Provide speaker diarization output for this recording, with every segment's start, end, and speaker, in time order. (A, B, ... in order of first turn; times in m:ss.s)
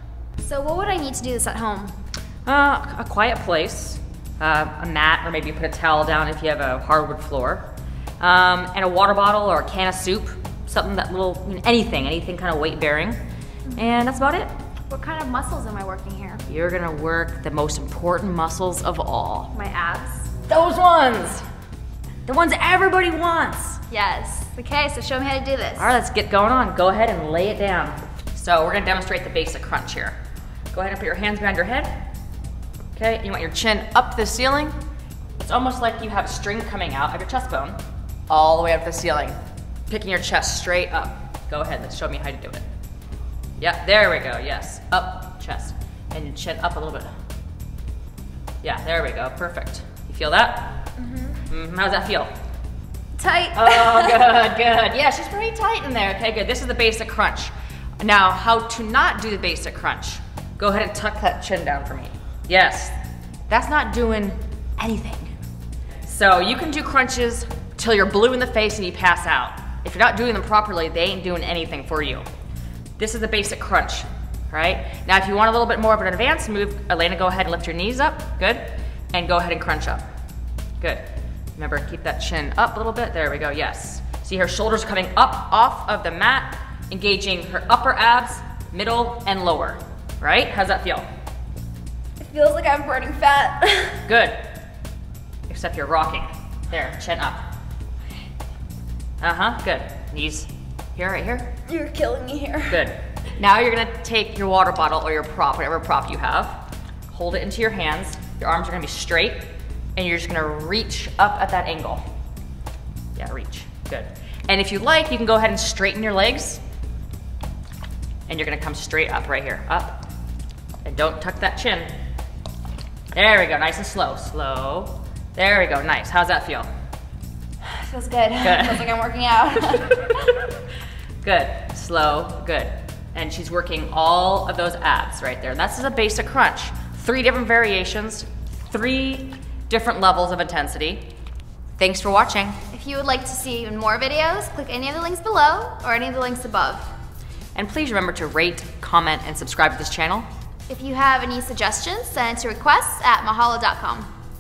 0:00.4-0:02.0 A
0:02.4-0:07.7 B
0:08.2-0:13.2 B
0:13.7-0:14.5 B
0:14.9-0:16.4 A
0:16.5-0:19.5 B
0:19.5-0:20.3 A
0:20.4-0:21.5 B
0:22.3-0:23.8 B
0:23.9-0:25.9 A
0:25.8-0:30.2 B
0:30.7-0:32.0 B
0:32.9-0:34.8 B
0:35.4-0:37.8 B
0:38.3-0:39.4 B
0:39.9-0:42.6 B
0:43.6-0:47.1 B
0:48.6-0:50.9 B
0:51.0-0:51.4 A
0:51.4-0:52.3 B
0:53.2-0:54.4 A
0:53.6-1:03.0 B
1:03.5-1:05.3 B
1:06.0-1:12.3 B
1:13.0-1:20.0 B
1:20.8-1:21.0 B
1:21.6-1:31.1 B
1:32.2-1:34.1 A
1:34.0-1:34.5 B
1:35.5-1:37.4 B
1:39.2-1:41.5 B
1:41.7-1:42.9 A
1:42.7-1:52.0 B
1:53.2-1:56.6 B
1:58.3-2:00.0 B
2:00.8-2:01.9 B
2:03.1-2:06.7 B
2:07.6-2:10.4 A
2:08.4-2:08.9 B
2:11.2-2:21.1 B
2:21.8-2:22.6 B
2:22.7-2:26.9 A
2:27.6-2:30.3 B
2:30.7-2:34.1 A